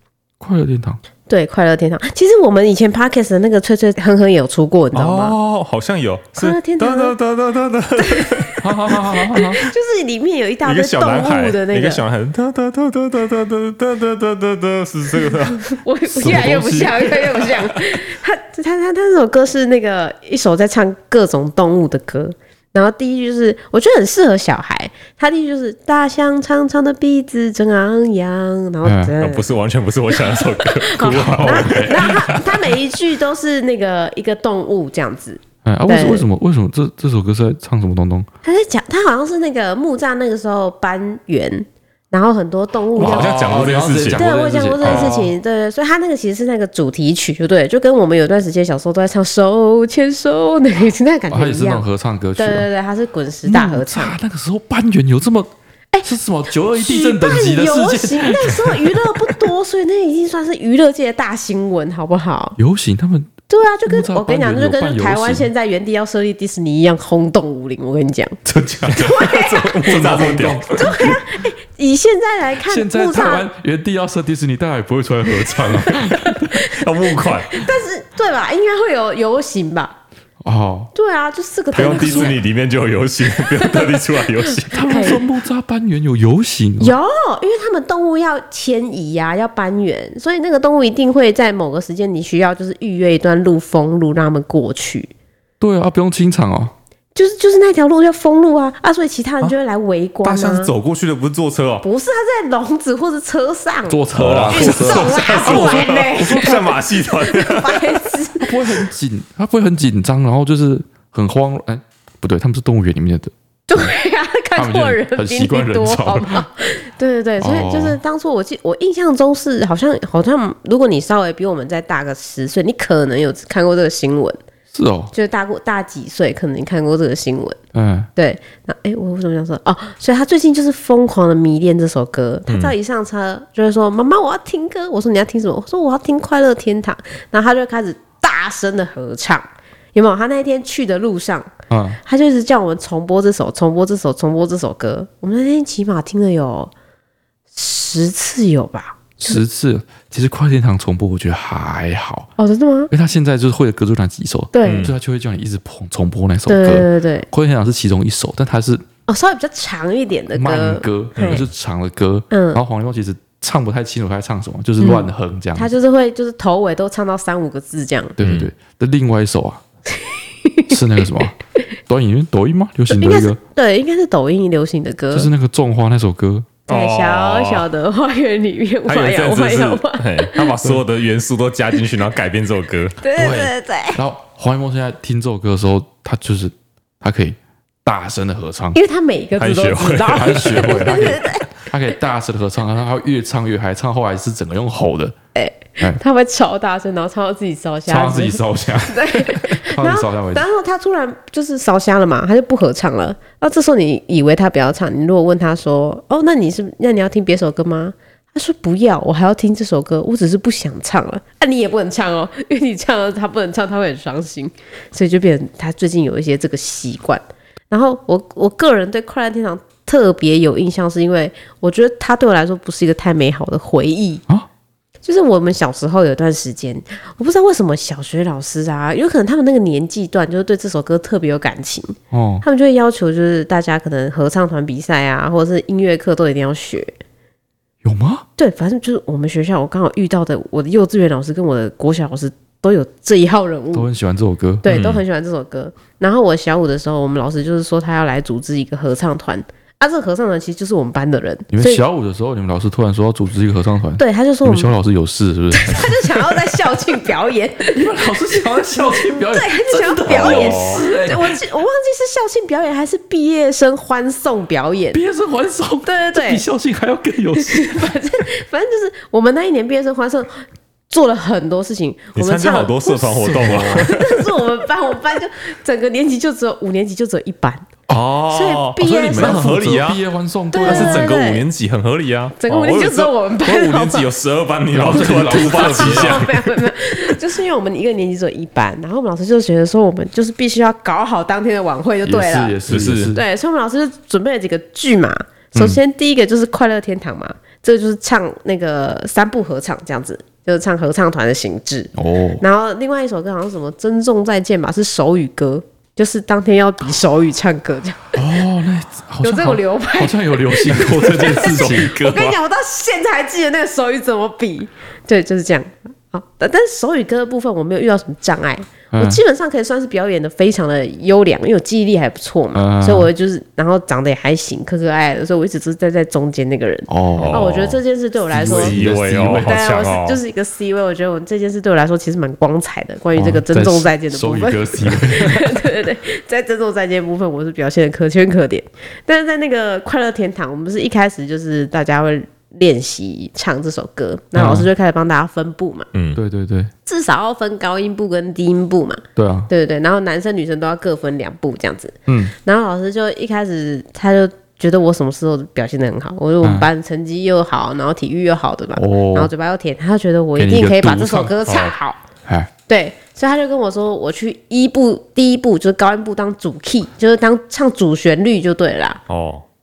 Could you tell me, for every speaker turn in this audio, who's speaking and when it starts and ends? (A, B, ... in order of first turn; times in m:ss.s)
0:00.4-0:01.0 A
0:01.3-0:05.3 B
0:04.9-0:09.0 C
0:06.4-0:07.2 B
0:08.0-0:12.0 B
0:08.6-0:09.7 A
0:10.6-0:17.8 C
0:15.2-0:29.5 B
0:16.2-0:16.9 A
0:28.8-0:29.1 A
0:29.2-0:32.4 C
0:30.1-0:36.3 B
0:31.0-0:32.4 A
0:35.6-0:38.3 A
0:38.4-0:51.8 B
0:43.0-0:44.2 C
0:43.0-0:45.3 A
0:44.8-0:45.1 C
0:51.3-0:52.7 A
0:52.4-0:54.2 B
0:53.4-0:55.5 A
0:56.0-0:59.3 A
0:56.7-1:02.6 B
1:02.6-1:05.5 A
1:03.5-1:08.4 B
1:08.4-1:11.2 A
1:08.9-1:10.9 C
1:08.9-1:10.2 B
1:10.7-1:13.5 B
1:12.6-1:16.6 A
1:15.5-1:20.0 B
1:16.6-1:17.7 C
1:20.4-1:20.9 A
1:20.9-1:22.4 B
1:21.7-1:25.1 C
1:21.9-1:22.3 A
1:23.4-1:24.0 B
1:24.7-1:27.0 A
1:24.7-1:25.2 B
1:26.8-1:35.1 B
1:35.6-1:36.7 A
1:37.1-1:40.7 B
1:40.2-1:41.8 C
1:41.8-1:48.5 B
1:43.9-1:46.6 A
1:44.1-1:48.0 C
1:48.4-1:53.9 A
1:53.7-2:04.4 B
1:54.5-1:56.4 A
1:57.4-1:58.0 A
2:04.7-2:05.1 A
2:05.1-2:07.6 B
2:07.7-2:08.1 A
2:08.2-2:21.5 B
2:12.5-2:12.7 C
2:21.7-2:22.0 A
2:22.0-2:26.7 B
2:27.5-2:29.4 B
2:29.2-2:32.3 A
2:32.4-2:32.9 B
2:32.9-2:38.8 A
2:34.5-2:34.9 B
2:34.6-2:34.9 C
2:36.5-2:37.3 B
2:39.1-2:41.4 B
2:40.3-2:45.7 A
2:41.2-2:41.4 C
2:42.3-2:42.6 B
2:44.8-2:48.2 B
2:48.2-2:49.6 A
2:48.2-2:48.5 C
2:50.0-2:51.1 B
2:50.7-2:51.4 A
2:51.9-2:53.4 A
2:52.9-2:55.3 B
2:55.1-2:56.5 A
2:56.7-2:57.7 C
2:56.7-3:00.5 B
2:58.9-3:03.0 C
3:03.0-3:04.0 B
3:03.2-3:08.8 A
3:08.7-3:11.5 B
3:09.4-3:10.7 C
3:10.1-3:15.1 A
3:15.3-3:44.2 B
3:17.9-3:20.4 A
3:45.0-3:56.9 B
3:52.1-3:52.4 A
3:57.8-3:58.2 A
3:58.4-4:03.9 B
4:03.7-4:04.6 A
4:04.6-4:11.8 B
4:04.7-4:05.0 C
4:11.5-4:16.2 A
4:14.0-4:14.7 B
4:15.5-4:25.0 B
4:17.7-4:21.4 A
4:20.1-4:20.8 C
4:24.9-4:27.9 A
4:25.8-4:26.4 B
4:27.4-4:37.7 B
4:32.2-4:34.0 C
4:33.2-4:34.0 A
4:37.9-4:40.0 C
4:38.3-4:39.5 B
4:38.8-4:41.1 A
4:40.5-4:41.4 B
4:40.6-4:46.4 C
4:42.4-4:44.1 B
4:44.7-4:46.3 A
4:45.0-4:52.6 B
4:52.0-4:53.2 A
4:52.7-4:53.1 C
4:53.1-5:08.2 B
4:55.5-4:55.8 A
5:01.9-5:02.4 A
5:08.1-5:12.4 A
5:09.2-5:28.8 B
5:11.4-5:11.9 C
5:18.9-5:19.2 A
5:22.5-5:23.1 A
5:26.9-5:27.7 A
5:27.2-5:27.8 C
5:28.3-5:29.6 A
5:28.4-5:30.2 C
5:29.4-5:45.9 B
5:33.2-5:35.5 A
5:44.3-5:44.7 A
5:45.9-5:46.2 C
5:46.1-5:46.7 A
5:46.8-6:02.0 B
5:49.2-5:49.5 A
5:52.1-5:52.3 A
5:56.4-5:56.7 A
5:58.8-5:59.3 A
6:00.4-6:01.4 A
6:01.4-6:01.7 C
6:02.7-6:09.0 B
6:09.1-6:09.4 C